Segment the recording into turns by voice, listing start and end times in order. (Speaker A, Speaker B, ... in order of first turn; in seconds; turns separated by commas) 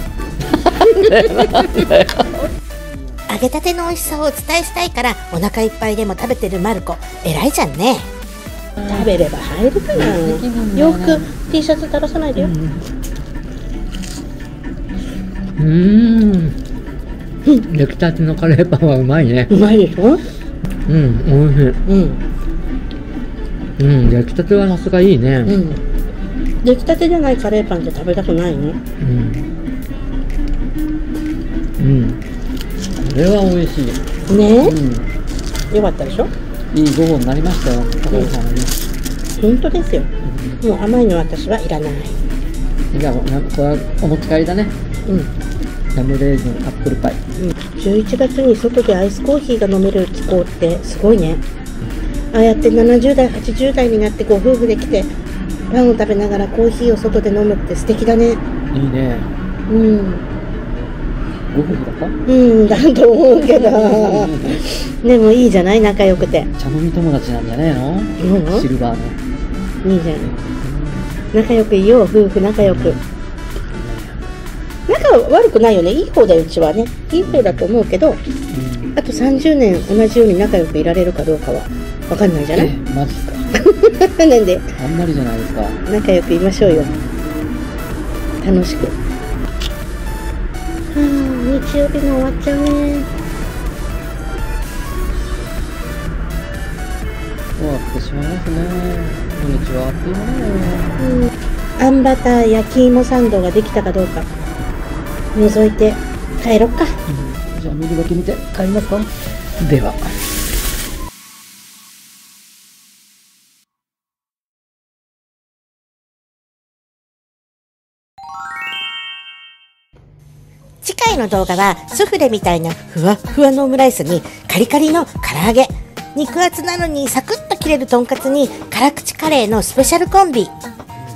Speaker A: 0.4-2.3, Speaker B: 3.3-8.1, Speaker C: 8.8-12.5, Speaker A: 9.9-11.3, Speaker A: 12.4-12.9, Speaker A: 15.6-16.6, Speaker A: 17.7-19.5, Speaker C: 19.5-20.2, Speaker A: 20.9-21.8, Speaker C: 21.9-22.2, Speaker A: 23.8-25.6, Speaker C: 25.4-25.8, Speaker C: 26.6-28.8, Speaker A: 29.0-29.5, Speaker A: 31.8-32.2, Speaker A: 33.0-34.0, Speaker C: 34.3-34.8, Speaker A: 34.6-35.1, Speaker C: 35.7-36.3, Speaker A: 36.7-38.8, Speaker C: 38.1-38.4, Speaker C: 39.4-40.1, Speaker A: 40.2-40.6, Speaker C: 40.6-42.2, Speaker A: 42.9-44.8, Speaker C: 45.1-45.3, Speaker A: 45.9-47.2, Speaker C: 47.4-51.4, Speaker C: 52.3-55.1, Speaker C: 55.7-58.4, Speaker A: 58.7-59.3, Speaker C: 59.7-60.2, Speaker A: 61.5-62.2, Speaker C: 62.3-66.5, Speaker A: 63.5-64.6, Speaker A: 66.2-69.2, Speaker C: 68.2-68.7, Speaker C: 69.8-70.3, Speaker A: 70.2-71.2, Speaker C: 71.3-73.0, Speaker A: 72.6-73.0, Speaker A: 73.7-74.2, Speaker C: 74.9-78.2, Speaker A: 77.2-77.7, Speaker A: 78.5-79.0, Speaker C: 79.0-82.7, Speaker A: 82.5-83.5, Speaker C: 83.5-84.7, Speaker A: 84.8-85.8, Speaker C: 85.9-86.9, Speaker A: 86.6-87.0, Speaker C: 88.4-89.0, Speaker C: 90.9-93.1, Speaker A: 97.6-101.0, Speaker C: 101.0-104.3, Speaker C: 105.3-107.0, Speaker A: 107.1-110.2, Speaker B: 120.8-130.5